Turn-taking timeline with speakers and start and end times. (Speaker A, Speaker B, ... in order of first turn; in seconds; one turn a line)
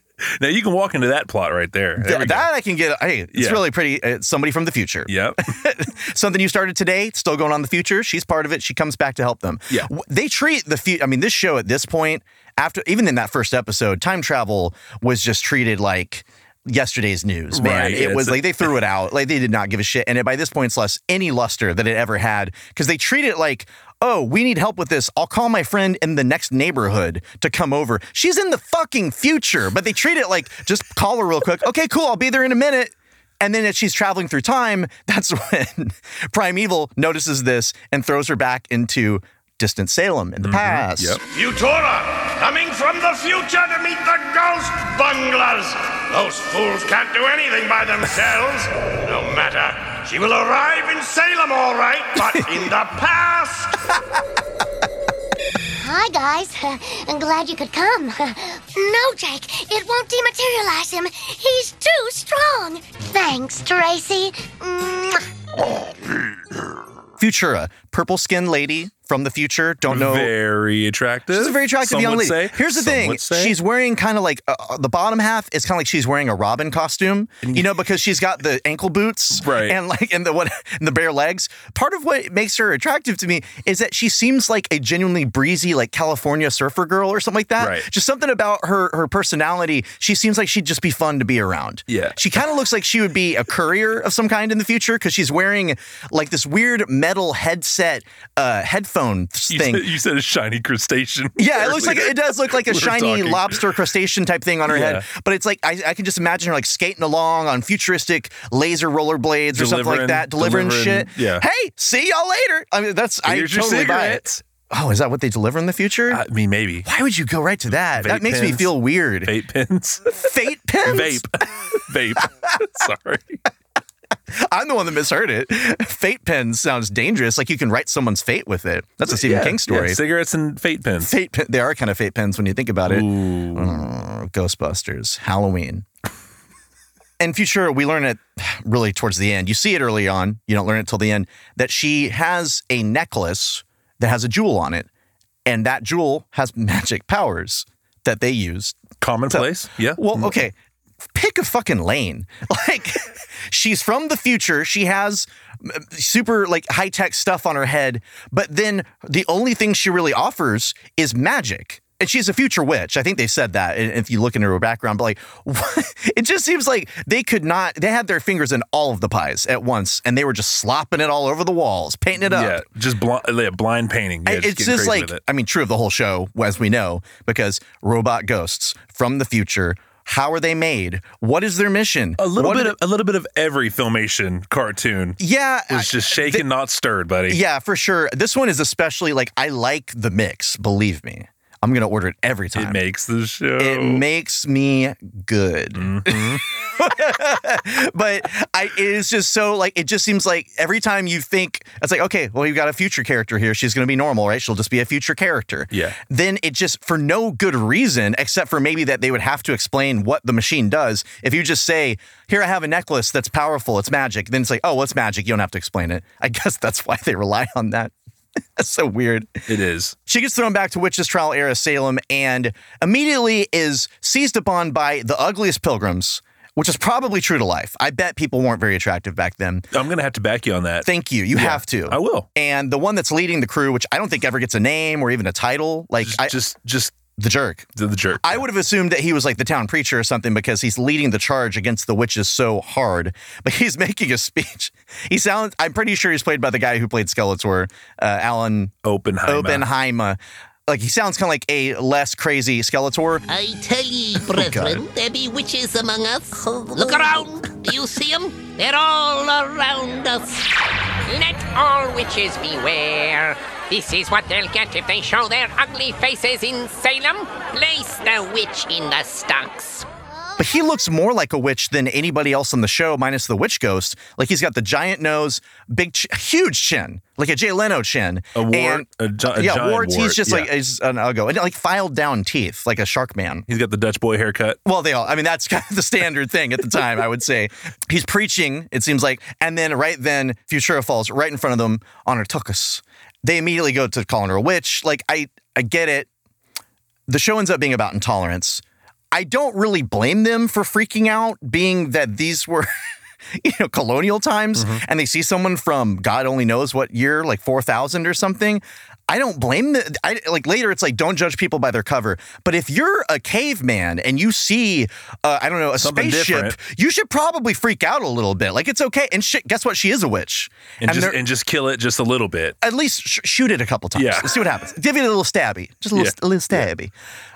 Speaker A: 0.2-2.5
Speaker B: 2.0-41.2
Speaker A: 3.3-3.6
Speaker A: 5.1-5.4
Speaker A: 17.5-18.4
Speaker A: 40.4-41.2
Speaker C: 41.3-53.5
Speaker B: 52.2-52.7
Speaker D: 55.7-65.3
Speaker B: 67.2-70.3
Speaker A: 69.9-73.6
Speaker B: 71.3-99.9
Speaker A: 77.4-77.7
Speaker A: 79.3-79.8
Speaker A: 87.6-87.9
Speaker A: 91.9-92.3
Speaker A: 99.5-103.6
Speaker B: 101.4-116.2
Speaker A: 104.7-105.1
Speaker A: 109.5-111.5
Speaker A: 113.2-114.4
Speaker A: 116.1-116.9
Speaker B: 116.8-119.3
Speaker A: 118.0-120.2
Speaker B: 120.1-121.4
Speaker A: 120.8-123.4
Speaker B: 122.2-122.6
Speaker B: 124.3-130.0
Speaker A: 129.1-131.2
Speaker B: 131.0-135.8
Speaker A: 132.8-133.8
Speaker B: 137.2-144.9
Speaker B: 145.4-150.5
Speaker A: 149.0-150.4
Speaker B: 151.1-172.6
Speaker A: 172.2-175.2
Speaker B: 174.2-182.8
Speaker A: 182.2-185.2
Speaker B: 185.2-186.5
Speaker A: 185.7-187.4
Speaker B: 187.3-192.8
Speaker A: 192.5-194.0
Speaker B: 193.6-217.9
Speaker A: 195.7-196.4
Speaker A: 205.7-206.0
Speaker B: 218.6-219.4
Speaker A: 219.5-219.9
Speaker B: 220.1-229.7
Speaker A: 229.7-232.3
Speaker B: 230.8-236.3
Speaker A: 236.0-236.9
Speaker B: 237.2-248.7
Speaker A: 237.8-238.5
Speaker A: 248.8-249.7
Speaker B: 249.3-253.2
Speaker E: 253.3-260.5
Speaker B: 254.3-254.8
Speaker F: 256.8-257.3
Speaker F: 261.1-269.9
Speaker B: 270.4-283.5
Speaker A: 278.3-280.5
Speaker A: 283.5-284.6
Speaker B: 284.6-296.1
Speaker B: 297.1-302.7
Speaker B: 303.3-321.2
Speaker A: 304.5-304.8
Speaker A: 315.8-316.6
Speaker A: 320.8-322.6
Speaker B: 322.6-326.9
Speaker A: 323.9-324.3
Speaker A: 325.9-326.6